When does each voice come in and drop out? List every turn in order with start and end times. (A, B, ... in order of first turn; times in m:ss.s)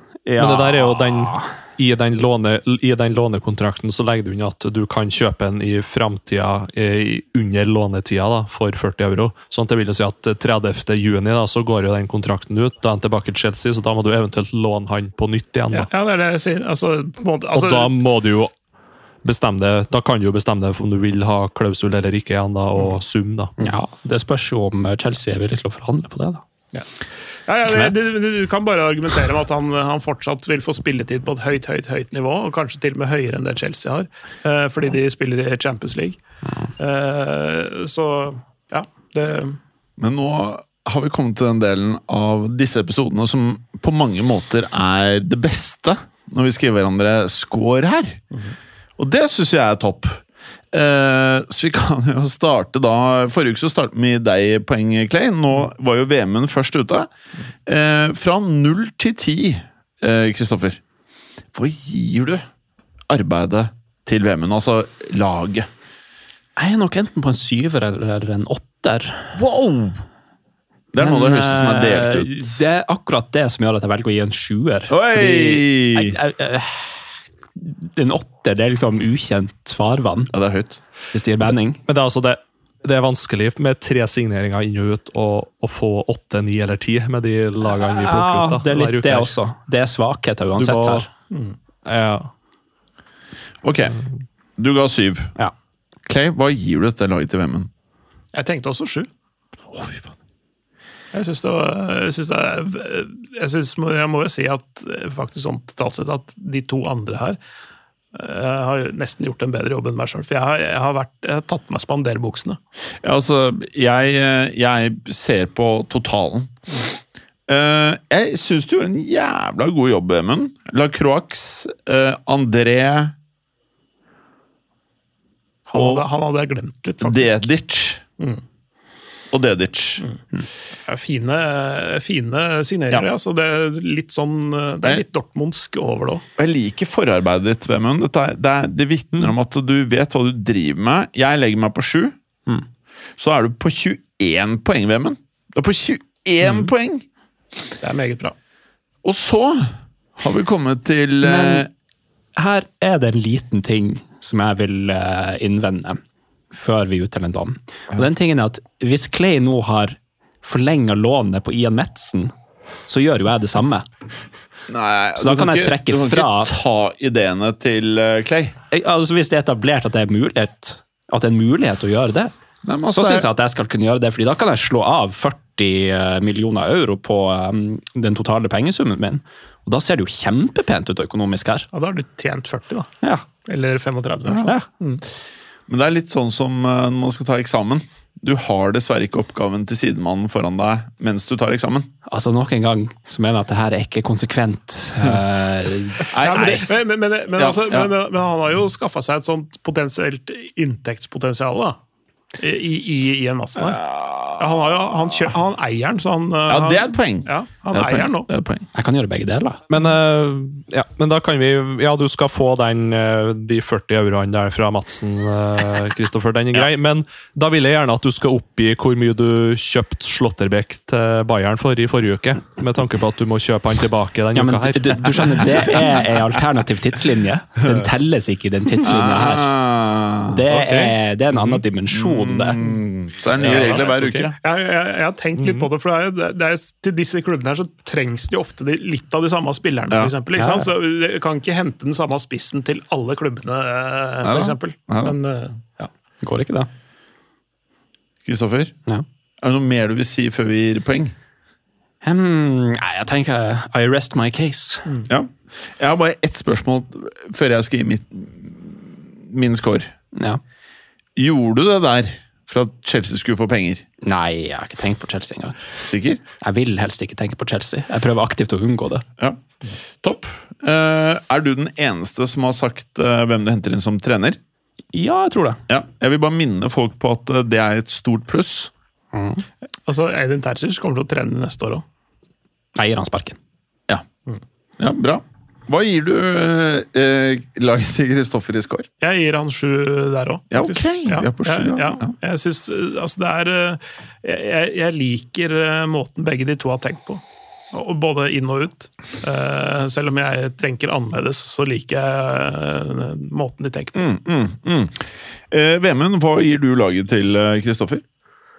0:00.2-0:01.4 A
0:00.4-0:15.9 B
0:15.7-0:17.9 C
0:17.5-0:18.5 B
0:19.2-0:23.5 B
0:23.6-0:26.4 A
0:27.5-0:36.2 C
0:27.7-0:28.0 A
0:36.8-0:39.6 C
0:40.0-0:48.2 D
0:49.0-0:57.1 D
0:57.6-1:00.8 D
1:01.5-1:02.4 D
1:03.1-1:05.7 D
1:06.6-1:09.4 A
1:09.4-1:10.0 D
1:10.9-1:12.6 D
1:11.0-1:17.0 A
1:14.9-1:16.2 D
1:17.6-1:20.3 A
1:20.3-1:20.8 D
1:21.1-1:21.8 A
1:21.8-1:29.3 B
1:27.6-1:31.1 A
1:30.6-1:31.1 B
1:31.3-1:31.6 C
1:31.8-1:32.3 B
1:33.6-1:34.0 D
1:34.6-1:35.3 D
1:36.0-1:37.7 D
1:38.3-1:39.1 C
1:39.7-1:40.1 D
1:41.1-1:47.4 C
1:48.1-1:52.6 C
1:53.0-1:56.5 D
1:57.5-2:03.1 D
2:05.7-2:07.5 C
2:05.7-2:06.0 D
2:07.0-2:08.0 D
2:09.3-2:10.0 D
2:10.8-2:16.2 C
2:16.4-2:22.1 D
2:23.2-2:27.0 D
2:27.8-2:28.3 C
2:29.0-2:31.7 D
2:31.2-2:31.7 A
2:32.4-2:36.0 A
2:36.5-2:42.3 A
2:42.9-2:43.9 A
2:44.7-2:48.6 D
2:45.2-2:46.6 A
2:48.7-2:52.3 A
2:52.6-2:53.3 D
2:52.9-3:01.7 A
3:01.7-3:02.9 C
3:03.0-3:03.3 A
3:03.4-3:05.0 C
3:05.7-3:11.9 D
3:12.0-3:16.6 A
3:16.1-3:16.7 D
3:16.2-3:21.8 C
3:17.3-3:17.9 D
3:22.4-3:23.8 C
3:23.6-3:24.8 D
3:24.4-3:28.3 C
3:26.5-3:28.6 D
3:28.7-3:29.6 A
3:29.7-3:45.5 B
3:44.3-3:49.5 A
3:48.8-3:50.8 D
3:50.3-3:52.6 A
3:51.9-3:54.3 D
3:53.4-3:53.8 A
3:53.4-4:05.9 C
3:55.4-3:55.7 B
4:00.3-4:00.7 A
4:04.2-4:05.1 D
4:06.2-4:06.7 A
4:08.2-4:08.7 D
4:09.4-4:11.1 D
4:12.0-4:14.8 A
4:15.1-4:19.9 D
4:20.1-4:20.4 A
4:21.2-4:23.8 D
4:24.0-4:25.6 A
4:25.8-4:26.2 D
4:26.4-4:29.0 A
4:30.0-4:34.4 D
4:34.9-4:35.6 A
4:35.7-4:38.7 D
4:39.1-4:39.4 A
4:39.9-4:41.8 C
4:42.8-4:43.4 A
4:44.8-4:48.9 D
4:49.0-5:04.0 C
4:50.5-4:52.1 D
5:04.0-5:08.0 D